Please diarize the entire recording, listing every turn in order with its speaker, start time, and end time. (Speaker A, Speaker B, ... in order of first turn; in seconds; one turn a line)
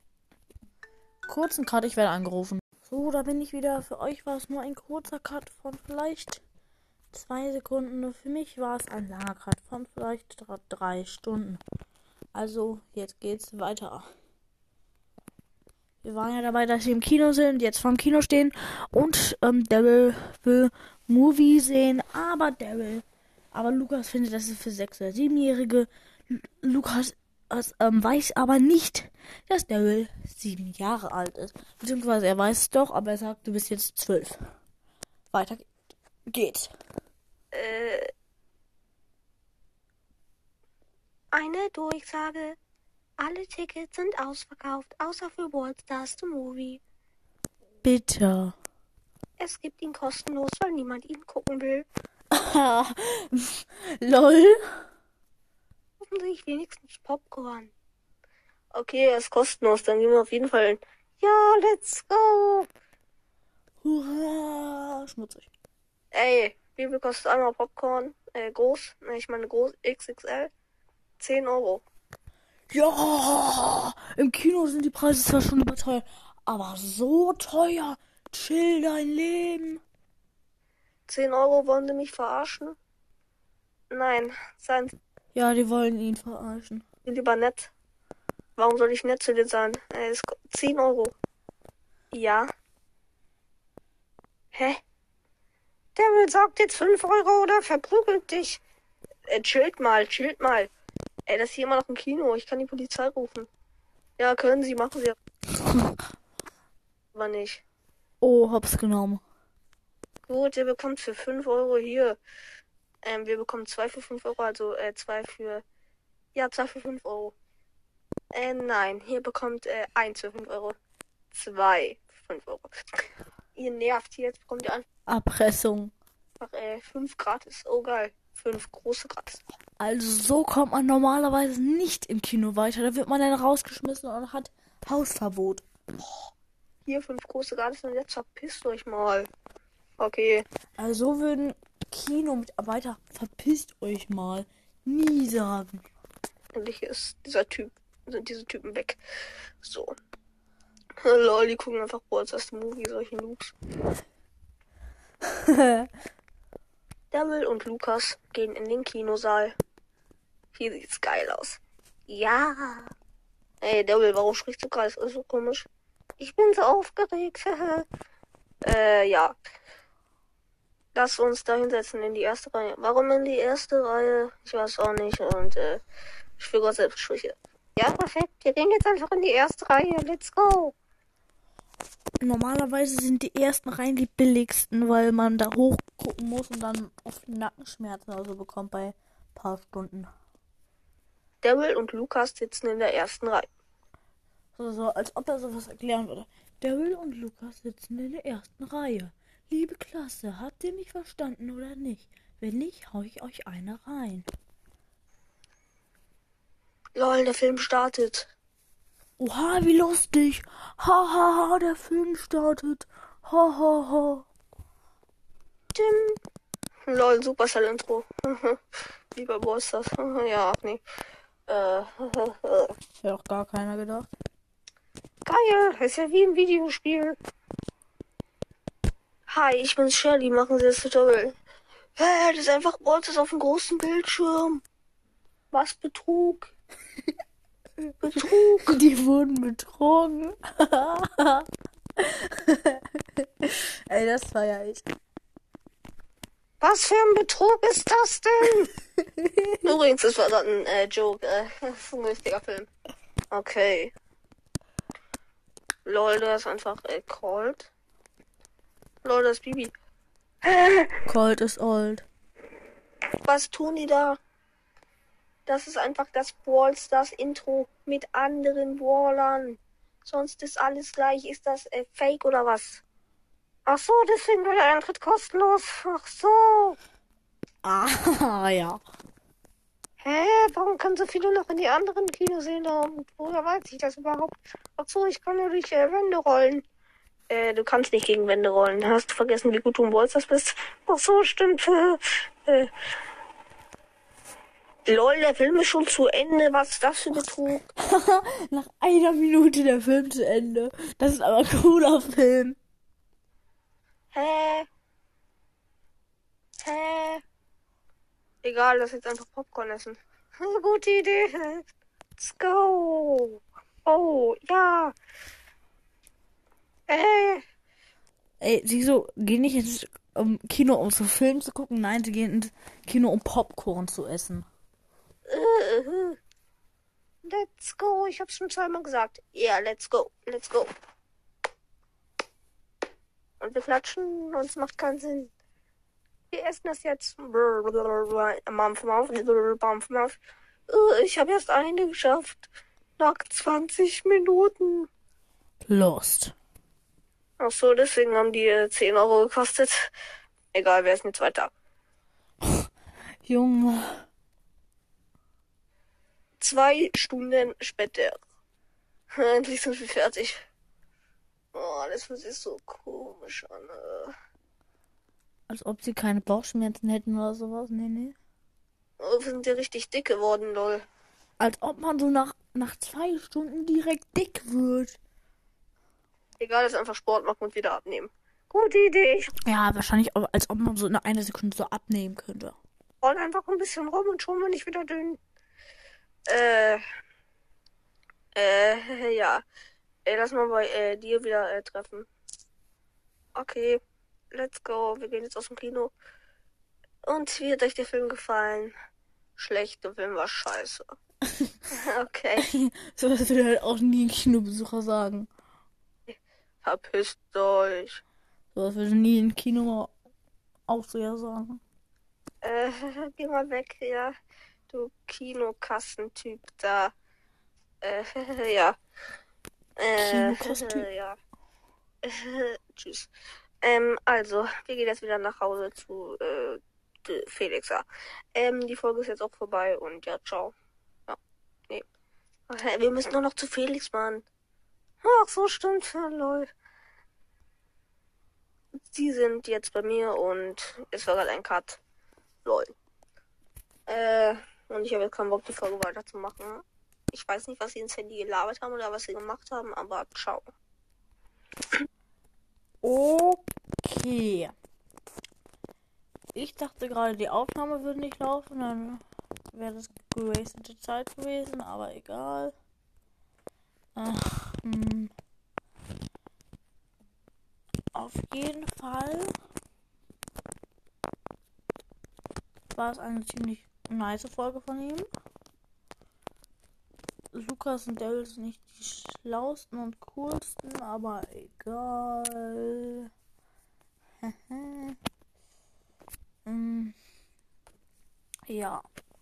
Speaker A: 1.3-6.4
Speaker A: 7.1-11.6
Speaker A: 12.3-14.1
Speaker A: 16.0-34.4
Speaker A: 35.3-35.7
Speaker A: 36.3-36.7
Speaker B: 37.5-38.1
Speaker B: 41.3-42.6
Speaker B: 43.2-46.8
Speaker A: 47.8-48.5
Speaker B: 49.4-51.9
Speaker A: 52.3-54.6
Speaker B: 56.0-57.7
Speaker B: 58.7-62.7
Speaker A: 63.8-65.5
Speaker B: 66.1-70.5
Speaker B: 71.2-71.8
Speaker A: 72.7-79.8
Speaker B: 81.1-82.8
Speaker B: 83.9-84.9
Speaker A: 85.3-86.8
Speaker B: 87.0-87.7
Speaker B: 88.6-91.1
Speaker B: 92.1-92.5
Speaker B: 94.5-94.8
Speaker B: 96.0-98.6
Speaker B: 99.3-100.7
Speaker B: 101.3-103.5
Speaker B: 104.2-105.1
Speaker B: 107.1-107.6
Speaker A: 108.2-109.2
Speaker B: 110.3-112.2
Speaker B: 113.0-115.6
Speaker B: 116.3-117.3
Speaker B: 118.3-120.8
Speaker B: 121.3-122.7
Speaker B: 123.5-124.8
Speaker A: 125.1-125.9
Speaker B: 126.4-129.4
Speaker A: 129.8-135.6
Speaker B: 136.0-136.3
Speaker B: 136.8-139.3
Speaker B: 140.0-140.4
Speaker A: 140.8-145.8
Speaker B: 146.5-149.0
Speaker B: 149.6-149.9
Speaker B: 151.0-153.5
Speaker A: 155.5-155.9
Speaker B: 157.1-159.5
Speaker B: 160.5-162.9
Speaker B: 163.6-165.7
Speaker B: 166.2-167.9
Speaker B: 168.6-169.4
Speaker B: 170.9-175.8
Speaker B: 176.4-180.7
Speaker A: 182.2-190.1
Speaker B: 191.4-193.5
Speaker A: 194.6-204.2
Speaker B: 206.9-208.3
Speaker A: 209.2-214.2
Speaker B: 215.7-216.2
Speaker B: 216.9-218.6
Speaker B: 219.1-220.8
Speaker B: 221.5-222.7
Speaker A: 223.0-224.1
Speaker B: 225.2-227.2
Speaker B: 229.3-231.4
Speaker B: 232.0-234.6
Speaker B: 235.5-236.5
Speaker B: 238.0-238.7
Speaker A: 238.7-241.5
Speaker A: 242.0-244.8
Speaker B: 246.6-248.7
Speaker A: 249.2-249.6
Speaker B: 249.6-252.7
Speaker B: 253.3-253.9
Speaker B: 255.8-257.7
Speaker B: 259.0-259.7
Speaker B: 260.4-260.9
Speaker A: 261.0-262.1
Speaker B: 263.2-264.2
Speaker B: 265.4-272.8
Speaker B: 273.6-276.8
Speaker A: 277.6-278.8
Speaker B: 280.0-286.6
Speaker B: 287.3-292.7
Speaker B: 294.9-297.7
Speaker A: 297.8-302.6
Speaker B: 304.1-304.7
Speaker B: 306.6-307.2
Speaker B: 308.4-314.9
Speaker B: 316.9-317.4
Speaker A: 318.4-324.5
Speaker B: 325.3-326.2
Speaker B: 327.2-330.7
Speaker B: 333.4-335.3
Speaker B: 336.3-340.2
Speaker B: 340.7-344.9
Speaker A: 345.6-346.3
Speaker B: 347.4-349.9
Speaker B: 350.5-351.5
Speaker A: 353.2-354.1
Speaker B: 356.4-358.2
Speaker B: 359.1-360.4
Speaker B: 361.5-364.1
Speaker A: 365.5-368.1
Speaker B: 369.0-370.9
Speaker A: 371.4-375.0
Speaker B: 376.4-379.3
Speaker A: 379.4-382.6
Speaker B: 383.0-385.2
Speaker B: 386.3-386.8
Speaker B: 388.3-389.4
Speaker B: 390.0-392.1
Speaker B: 393.3-393.8
Speaker B: 394.3-395.9
Speaker B: 397.0-398.7
Speaker B: 399.4-400.9
Speaker B: 401.7-402.4
Speaker A: 402.4-405.3
Speaker B: 406.1-408.0
Speaker A: 408.5-409.9
Speaker A: 410.7-411.6
Speaker B: 412.4-414.1
Speaker B: 414.7-416.9
Speaker B: 417.8-418.8
Speaker B: 419.8-421.2
Speaker A: 419.9-420.9
Speaker B: 422.0-423.1
Speaker B: 423.6-430.5
Speaker B: 431.1-431.9
Speaker B: 432.5-434.2
Speaker B: 435.0-436.5
Speaker B: 438.9-441.8
Speaker B: 442.4-442.7
Speaker B: 443.9-450.4
Speaker A: 452.8-454.5
Speaker A: 456.3-462.5
Speaker A: 463.9-465.1
Speaker A: 467.9-469.3
Speaker A: 472.7-475.1
Speaker A: 477.3-483.1
Speaker A: 484.2-485.0
Speaker A: 486.4-486.9
Speaker A: 488.5-488.8